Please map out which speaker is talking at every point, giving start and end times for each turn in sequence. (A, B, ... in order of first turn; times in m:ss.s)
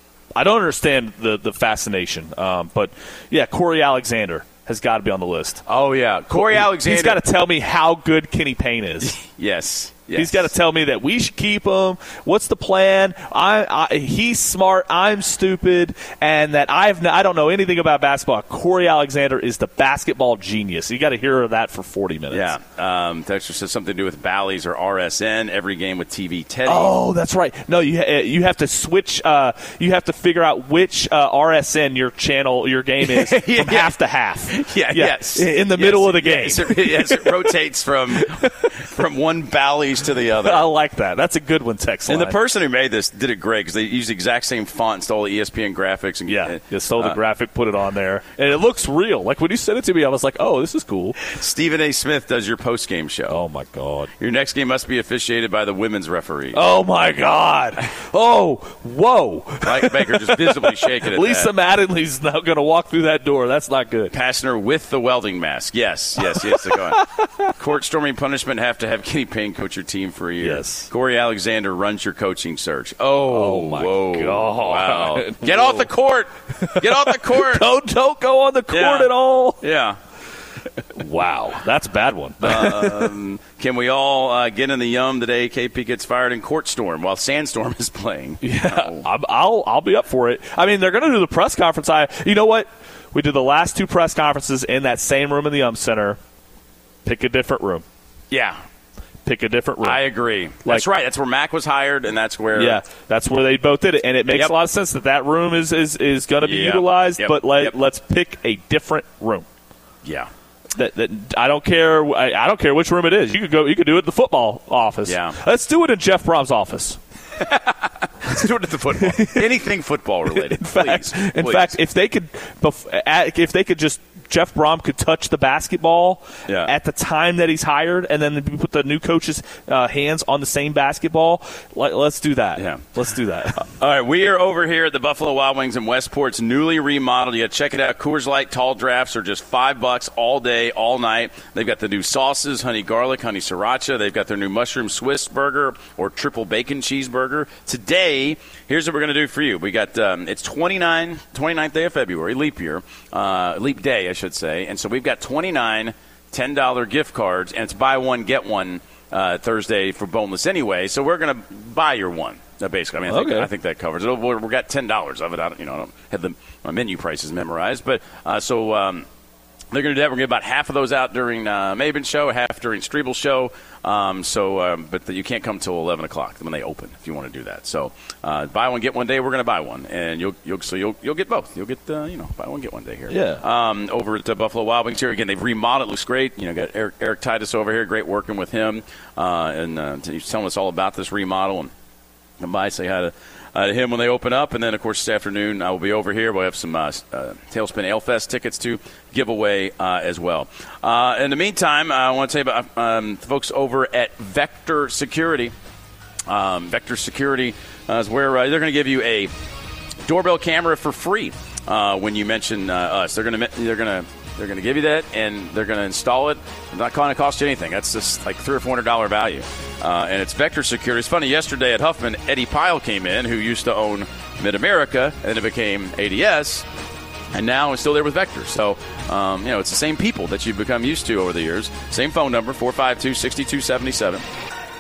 0:00.4-0:05.6 A
0:05.7-0:07.2 B
0:06.3-0:09.2 A
0:09.0-0:10.5 B
0:10.2-0:22.5 A
0:22.3-0:26.9 B
0:26.7-0:37.5 A
0:33.0-0:33.9 B
0:34.5-0:40.7 B
0:38.2-0:38.7 A
0:40.4-0:42.4 A
0:42.1-0:47.2 B
0:46.3-0:51.2 A
0:51.2-0:53.4 B
0:53.3-0:54.1 A
0:54.2-0:56.6 B
0:56.5-1:04.1 A
0:59.6-1:01.5 B
1:04.1-1:17.7 B
1:06.2-1:07.3 A
1:10.4-1:10.9 A
1:13.3-1:15.9 A
1:16.6-1:19.6 A
1:18.7-1:20.0 B
1:20.9-1:23.1 A
1:22.4-1:29.1 B
1:28.4-1:36.2 A
1:37.0-1:37.8 A
1:38.3-1:38.6 B
1:39.2-1:40.0 A
1:39.8-1:42.8 B
1:42.6-1:49.5 A
1:44.3-1:44.6 B
1:46.4-1:47.7 B
1:50.0-1:50.3 B
1:50.8-1:57.0 A
1:55.1-1:55.4 B
1:57.4-2:01.8 B
1:59.0-1:59.5 A
2:00.3-2:13.6 A
2:06.5-2:06.7 B
2:12.6-2:12.8 B
2:13.5-2:49.1 B
2:43.1-2:43.5 A
2:49.7-3:11.7 B
3:03.1-3:03.4 A
3:12.4-3:25.5 B
3:26.3-3:29.3 B
3:30.0-3:46.7 B
3:47.3-3:54.2 B